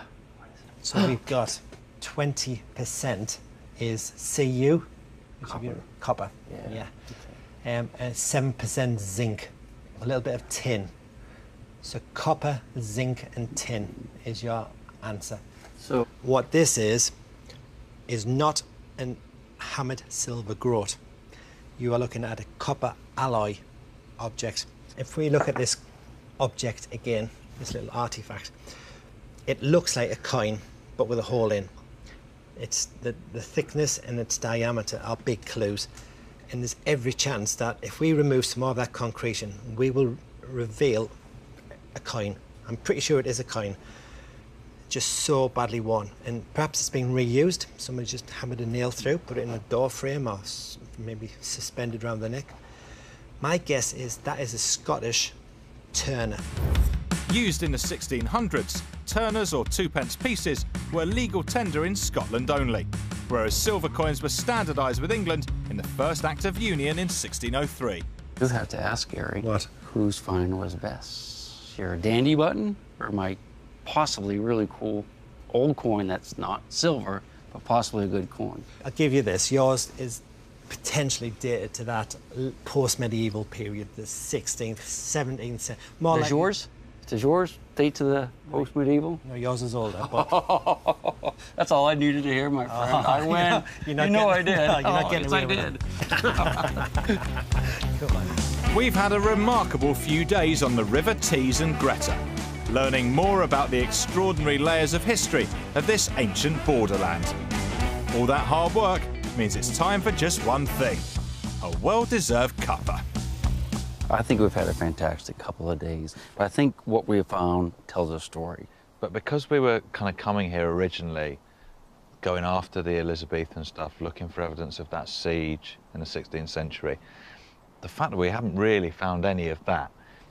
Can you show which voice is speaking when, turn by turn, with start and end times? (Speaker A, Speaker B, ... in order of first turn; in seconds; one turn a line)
Speaker A: 0.8-4.9
Speaker A: 5.4-6.9
Speaker A: 7.6-10.9
Speaker A: 11.8-15.4
Speaker A: 16.2-17.1
Speaker A: 18.1-21.0
Speaker A: 21.8-23.6
Speaker A: 24.2-25.8
Speaker A: 26.4-28.5
Speaker A: 29.5-31.7
Speaker A: 32.6-35.9
Speaker A: 36.5-41.1
Speaker A: 41.9-43.8
Speaker A: 44.9-52.5
Speaker A: 53.4-55.3
Speaker A: 55.9-56.4
Speaker B: 57.3-68.0
Speaker C: 68.4-78.7
Speaker A: 69.4-69.7
Speaker A: 78.8-86.5
Speaker C: 86.1-89.2
Speaker A: 89.2-90.4
Speaker C: 90.0-96.8
Speaker A: 92.7-98.3
Speaker B: 98.7-107.3
Speaker B: 108.1-111.1
Speaker B: 111.6-113.0
Speaker C: 114.1-118.7
Speaker D: 119.0-121.4
Speaker D: 122.2-127.0
Speaker D: 127.8-129.9